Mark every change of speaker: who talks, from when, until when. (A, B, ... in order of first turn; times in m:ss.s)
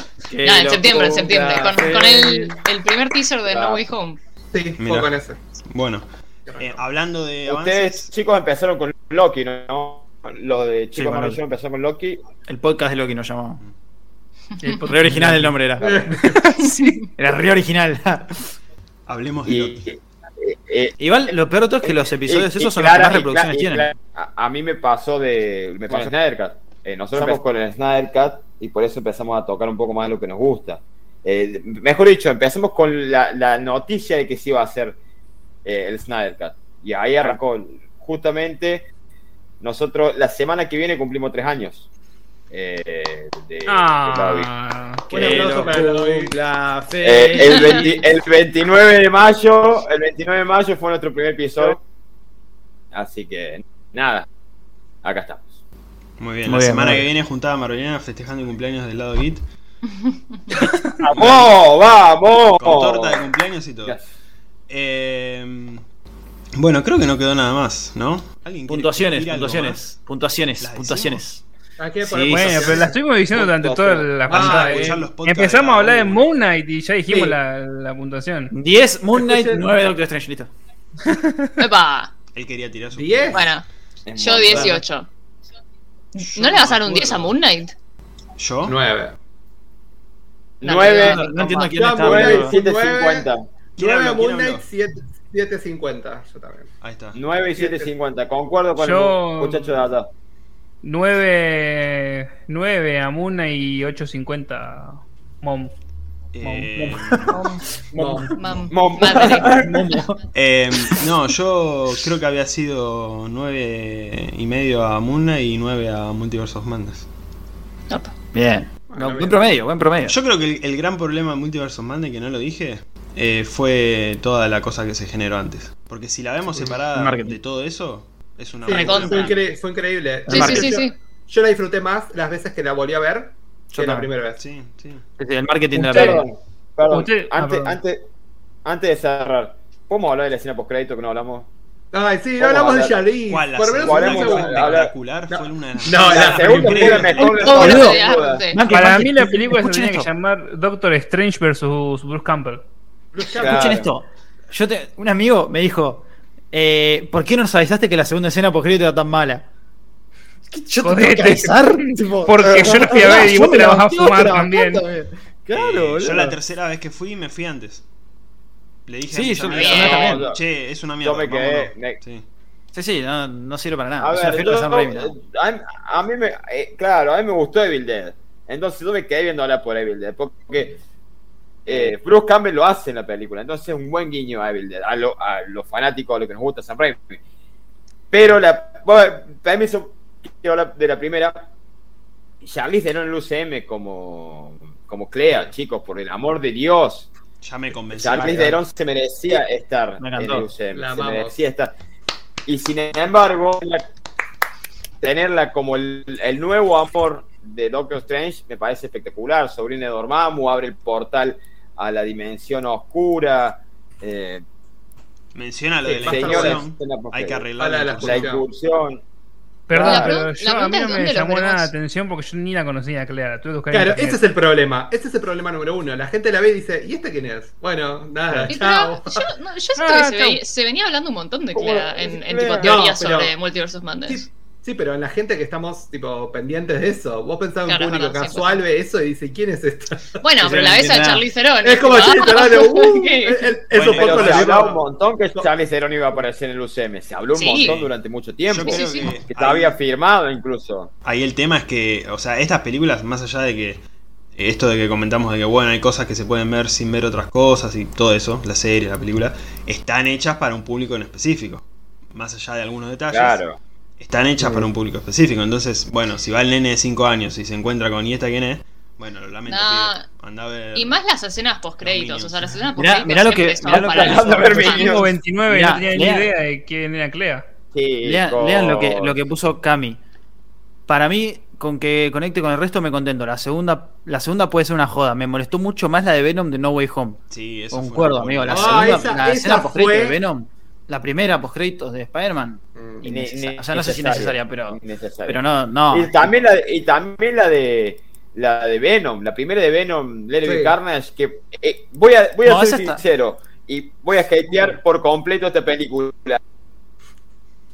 0:00.3-0:02.5 A
0:00.4-0:04.2 B
0:01.4-0:01.7 C
0:03.5-0:03.8 C
0:04.5-0:05.4 D
0:04.8-0:05.1 E
0:05.7-0:08.1 E
0:06.5-0:06.8 D
0:07.5-0:12.2 C
0:11.0-0:11.4 A
0:12.5-0:13.6 A
0:14.6-0:15.5 F
0:14.9-0:16.4 A
0:15.8-0:16.4 D
0:16.3-0:17.0 F
0:16.6-0:16.9 B
0:17.1-0:18.4 A
0:19.1-0:19.8 E
0:19.4-0:21.0 C
0:21.0-0:23.9 A
0:21.8-0:35.0 C
0:27.1-0:27.4 A
0:35.6-0:38.9 C
0:39.6-0:41.9 C
0:42.5-0:44.5 C
0:43.7-0:45.1 F
0:45.1-0:46.4 D
0:45.1-0:48.0 A
0:45.2-0:45.8 C
0:47.0-0:51.8 C
0:52.9-0:54.3 C
0:55.0-0:55.5 C
0:56.2-0:59.4 E
0:56.5-0:57.1 A
1:01.0-1:03.3 C
1:01.1-1:01.6 E
1:02.6-1:04.0 E
1:04.7-1:05.8 E
1:06.6-1:10.0 E
1:08.7-1:11.4 A
1:10.6-1:11.3 E
1:11.8-1:13.0 D
1:12.0-1:12.8 A
1:12.2-1:18.5 F
1:13.3-1:14.2 C
1:14.3-1:15.1 D
1:14.3-1:16.3 E
1:17.1-1:17.4 D
1:18.5-1:20.5 A
1:19.2-1:19.7 D
1:21.1-1:21.5 F
1:21.6-1:22.1 B
1:22.3-1:23.5 E
1:22.9-1:23.6 D
1:23.3-1:25.1 B
1:24.1-1:24.8 C
1:24.5-1:24.8 A
1:26.1-1:27.7 B
1:26.2-1:27.4 E
1:28.4-1:28.8 E
1:28.7-1:29.2 D
1:30.6-1:33.4 C
1:30.6-1:31.6 B
1:30.9-1:32.6 A
1:31.6-1:36.7 D
1:33.8-1:34.6 E
1:36.8-1:37.2 E
1:37.2-1:40.1 C
1:37.5-1:37.9 D
1:38.8-1:39.8 F
1:40.8-1:45.7 F
1:46.3-1:47.4 E
1:46.4-1:47.5 F
1:47.3-1:47.6 B
1:47.9-1:48.4 D
1:48.0-1:48.3 A
1:48.3-1:49.7 B
1:48.7-1:49.8 C
1:49.3-1:50.2 A
1:50.3-1:57.1 E
1:58.3-2:00.2 A
1:58.9-1:59.4 D
2:00.0-2:09.5 E
2:06.9-2:07.4 A
2:08.6-2:14.4 D
2:08.7-2:09.4 B
2:10.3-2:10.8 A
2:10.3-2:11.0 B
2:13.7-2:14.1 A
2:14.4-2:15.0 E
2:15.2-2:16.3 A
2:15.8-2:16.2 F
2:15.9-2:18.1 C
2:16.9-2:17.8 F
2:18.6-2:21.5 C
2:21.9-2:24.8 D
2:22.4-2:23.0 C
2:23.3-2:27.6 E
2:23.8-2:24.9 C
2:25.3-2:27.2 D
2:26.1-2:28.4 C
2:27.2-2:28.6 B
2:27.4-2:30.1 A
2:28.7-2:32.6 F
2:33.1-2:33.8 D
2:33.4-2:39.5 A
2:33.4-2:33.9 C
2:40.5-2:46.4 A
2:40.8-2:44.8 F
2:45.5-2:47.8 E
2:48.9-2:52.2 E
2:49.1-2:50.3 A
2:49.5-2:50.0 B
2:49.5-2:50.4 C
2:51.0-2:52.0 C
2:52.7-2:55.2 A
2:54.0-3:00.8 C
3:01.7-3:07.2 C
3:08.1-3:11.5 C
3:12.4-3:17.1 C
3:17.4-3:18.6 E
3:17.9-3:21.7 C
3:18.1-3:18.6 A
3:20.0-3:20.5 A
3:20.7-3:21.4 D
3:22.5-3:23.9 C
3:25.0-3:34.4 C
3:35.4-3:38.4 E
3:35.8-3:36.6 D
3:36.0-3:37.5 C
3:37.6-3:38.5 D
3:38.0-3:39.0 C
3:39.7-3:44.2 F
3:39.7-3:40.2 D
3:39.8-3:41.7 B
3:43.7-3:49.3 D
3:48.5-3:54.3 B
3:49.8-3:50.4 F
3:51.5-3:52.9 C
3:52.6-3:53.3 D
3:54.0-4:00.2 D
3:57.7-3:58.6 B
4:00.2-4:03.6 B
4:00.4-4:01.2 A
4:01.6-4:04.8 D
4:03.7-4:04.5 A
4:03.9-4:10.9 C
4:07.3-4:07.8 B
4:07.5-4:07.9 E
4:08.5-4:09.8 E
4:08.6-4:09.2 B
4:11.0-4:13.8 E
4:14.4-4:23.4 E
4:23.1-4:23.6 C
4:24.0-4:31.0 E
4:24.4-4:24.7 A
4:29.5-4:30.1 B
4:30.7-4:35.0 B
4:31.8-4:32.6 E
4:32.8-4:34.8 A
4:33.7-4:35.1 C
4:34.7-4:37.4 F
4:35.5-4:36.3 A
4:37.7-4:39.2 C
4:38.0-4:40.0 A
4:40.9-4:56.2 A
4:47.3-4:49.1 E
4:48.5-4:50.2 D
4:52.8-4:53.0 D
4:53.0-4:55.4 C
4:55.9-5:06.4 C
5:00.4-5:00.8 D
5:02.4-5:03.0 A